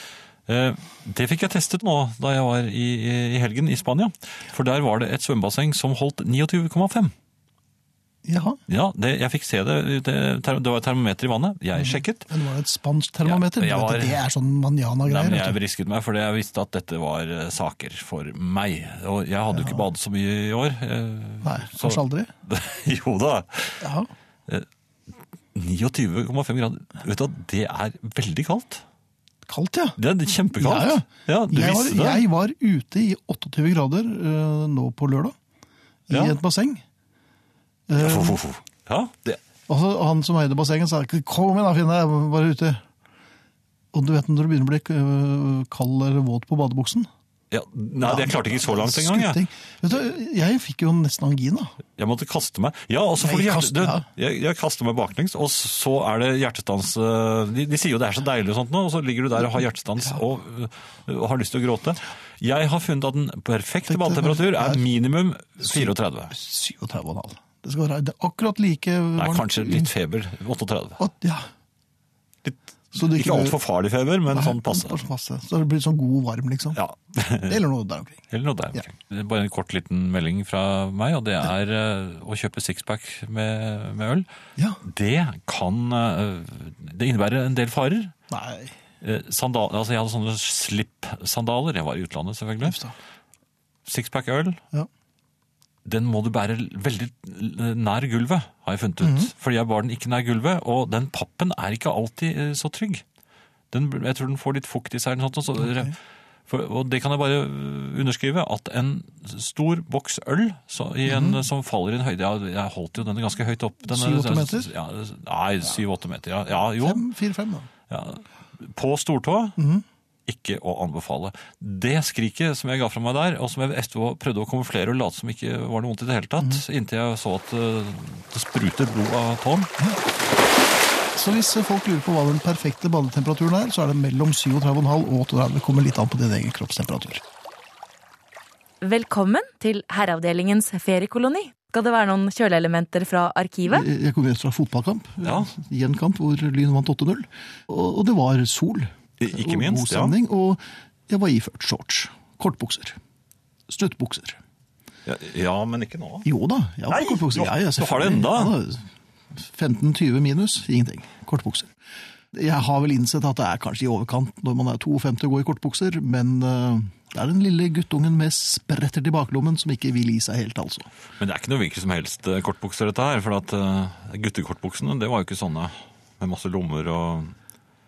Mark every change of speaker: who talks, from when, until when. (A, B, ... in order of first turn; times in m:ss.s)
0:00.5-0:07.1 A
0:08.2-0:08.6 B
0:08.7-0:12.3 A
0:11.8-0:15.6 B
0:13.2-0:14.2 A
0:15.1-0:23.8 A
0:19.5-0:19.9 B
0:21.4-0:22.3 B
0:23.8-0:24.1 B
0:25.5-0:28.8 A
0:29.5-0:30.0 B
0:30.0-0:32.2 A
0:30.6-0:35.4 B
0:36.1-0:36.8 B
0:36.1-0:36.4 A
0:37.9-0:38.4 B
0:38.0-0:39.4 A
0:39.7-0:42.8 B
0:43.9-0:47.1 B
0:47.5-0:49.4 A
0:48.0-0:51.7 B
0:52.0-1:06.3 A
0:53.2-0:54.0 B
1:03.9-1:04.8 B
1:05.6-1:09.9 B
1:09.2-1:11.0 A
1:11.0-1:11.5 B
1:12.4-1:15.0 A
1:12.9-1:13.6 B
1:14.3-1:16.8 B
1:16.8-1:17.6 A
1:17.5-1:18.2 B
1:18.3-1:24.3 A
1:24.8-1:28.1 A
1:28.3-1:28.8 B
1:29.0-1:32.8 A
1:32.6-1:32.9 B
1:33.9-1:34.6 A
1:35.8-1:43.0 A
1:39.0-1:39.3 B
1:43.7-1:46.0 A
1:46.5-1:57.0 A
1:51.1-1:51.4 B
1:53.9-1:54.7 B
1:56.8-1:57.7 B
1:57.9-1:59.6 A
1:59.6-1:59.8 B
2:00.3-2:09.7 A
2:06.4-2:06.6 B
2:11.2-2:17.2 B
2:18.8-2:23.9 C
2:23.7-2:33.0 B
2:25.2-2:25.5 A
2:29.2-2:30.2 A
2:33.7-2:34.4 B
2:35.1-2:36.3 A
2:36.2-2:41.7 B
2:36.9-2:38.6 A
2:42.3-2:50.9 B
2:51.2-2:57.4 A